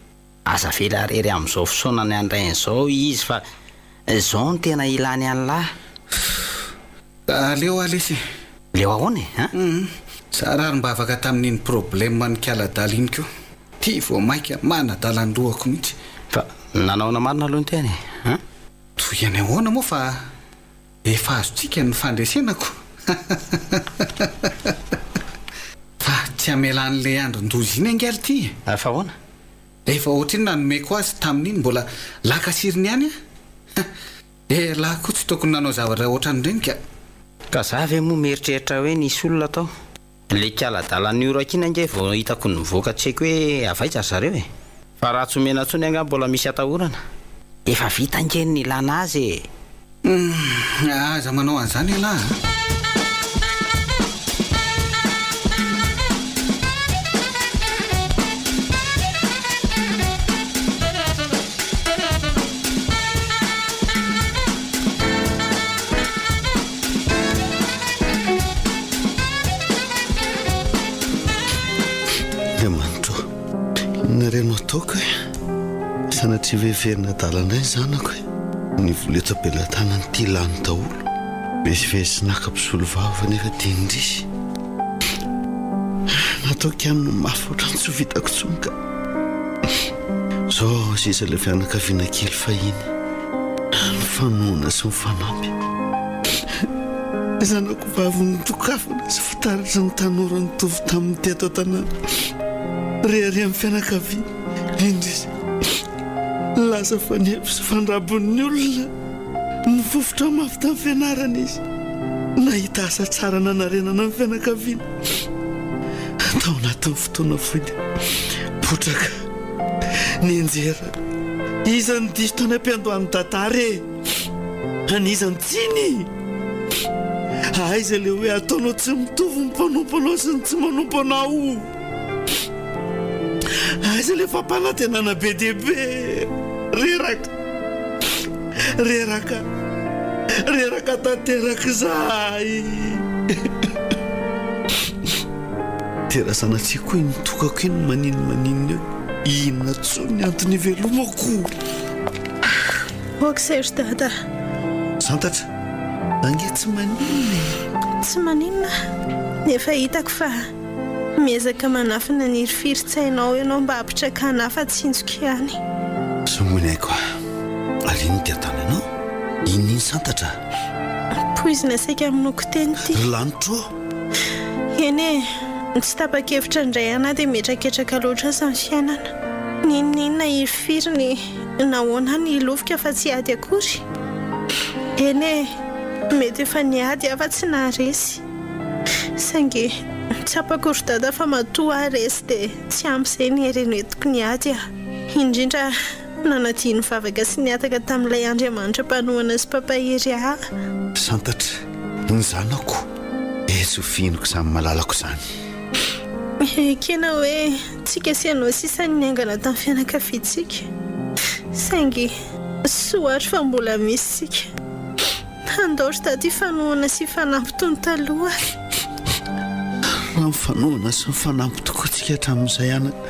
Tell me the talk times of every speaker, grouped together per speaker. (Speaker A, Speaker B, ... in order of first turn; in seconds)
Speaker A: 0.5-3.4, 4.1-5.7, 8.7-9.5, 16.3-18.4, 28.7-29.1, 37.5-39.7, 40.3-44.5, 45.0-47.0, 47.7-49.5
Speaker B: 7.3-8.2, 9.5-13.3, 13.8-15.9, 19.0-20.2, 21.1-24.8, 26.0-28.6, 29.9-33.1, 34.5-36.8, 50.0-52.4
Speaker C: 72.6-73.3, 74.0-75.1, 76.1-78.2, 78.8-81.1, 81.6-84.3, 86.1-88.8, 90.5-92.9, 93.7-95.6, 97.4-102.2, 103.0-105.8, 106.6-108.9, 109.7-111.6, 112.4-114.9, 116.3-117.8, 118.6-119.2, 120.2-121.0, 121.7-123.9, 124.9-126.1, 127.5-131.7, 133.5-137.3, 138.8-139.5, 140.4-143.7, 146.1-151.5, 155.0-155.5, 156.2-157.6, 166.3-167.0, 167.8-168.9, 169.4-170.4, 172.9-173.7, 200.9-202.9, 203.5-205.2, 219.9-222.9
Speaker D: 153.2-154.1, 158.0-158.7, 159.4-160.5, 161.2-165.6, 171.3-173.0, 174.8-179.1, 179.6-183.8, 185.0-185.6, 186.1-188.2, 189.2-200.4, 206.4-210.7, 211.5-214.5, 215.5-218.4